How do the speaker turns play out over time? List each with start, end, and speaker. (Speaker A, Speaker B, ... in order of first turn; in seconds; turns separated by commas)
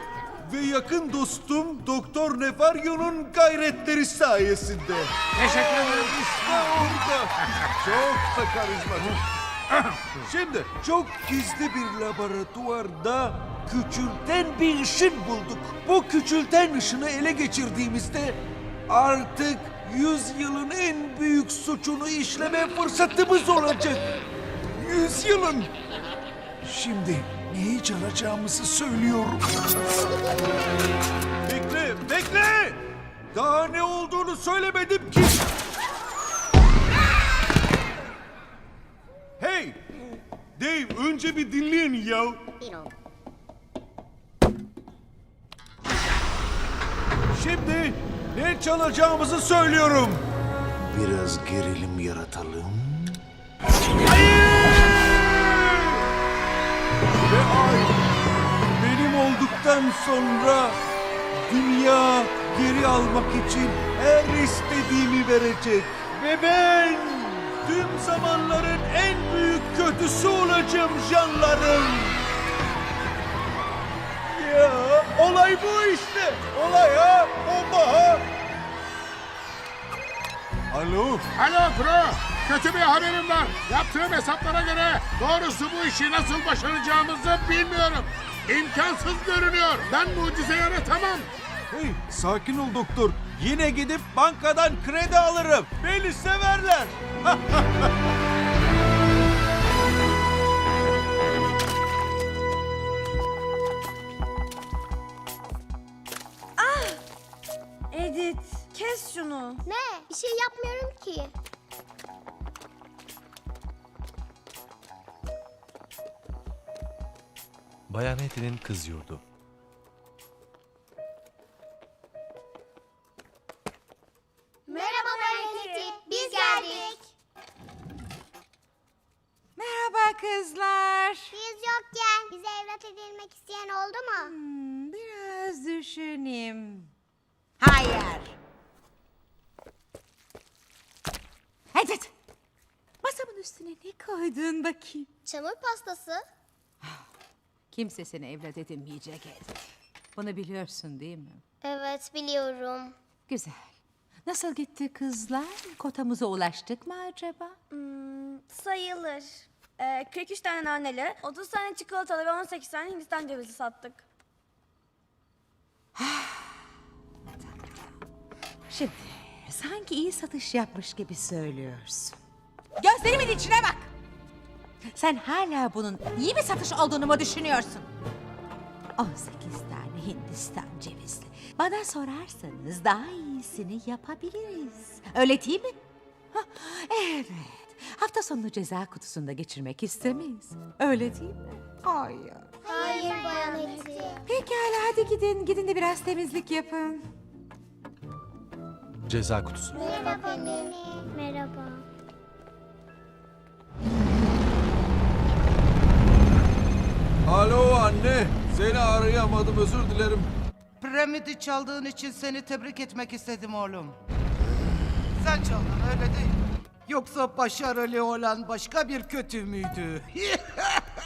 Speaker A: 0.4-9.2, Speaker B: 5.4-6.1, Speaker A: 10.2-24.1, Speaker A: 24.7-25.7, Speaker A: 26.6-29.6, Speaker A: 31.4-32.8, Speaker A: 33.3-35.4, Speaker A: 39.4-39.8, Speaker A: 40.5-42.4, Speaker A: 47.3-50.2, Speaker A: 50.9-52.8, Speaker A: 57.2-58.0, Speaker A: 58.8-60.8, Speaker A: 61.5-72.2, Speaker A: 74.3-78.2, Speaker A: 80.7-81.3, Speaker B: 81.3-91.3, Speaker A: 91.7-97.9, Speaker C: 106.6-107.0, Speaker C: 107.9-109.6, Speaker D: 109.7-111.3, Speaker E: 117.9-119.2, Speaker C: 124.7-126.9, Speaker D: 124.7-127.0, Speaker F: 129.6-131.4, Speaker D: 131.3-134.3, Speaker F: 134.1-136.9, Speaker F: 137.6-138.3, Speaker F: 141.7-142.1, Speaker F: 143.0-145.1, Speaker D: 145.2-146.2, Speaker F: 147.7-149.6, Speaker F: 150.1-151.4, Speaker D: 151.6-152.9, Speaker F: 153.3-153.7, Speaker F: 154.2-157.6, Speaker C: 157.7-164.0, Speaker F: 165.9-166.5, Speaker F: 168.7-172.2, Speaker F: 172.8-173.9, Speaker F: 174.9-177.9, Speaker F: 179.0-185.8, Speaker F: 186.3-192.7, Speaker D: 192.6-194.3, Speaker C: 192.7-193.9, Speaker F: 194.2-197.0, Speaker E: 199.1-199.8, Speaker D: 199.7-201.8, Speaker C: 199.7-200.7, Speaker A: 207.2-210.3, Speaker G: 210.8-213.9, Speaker G: 215.2-220.2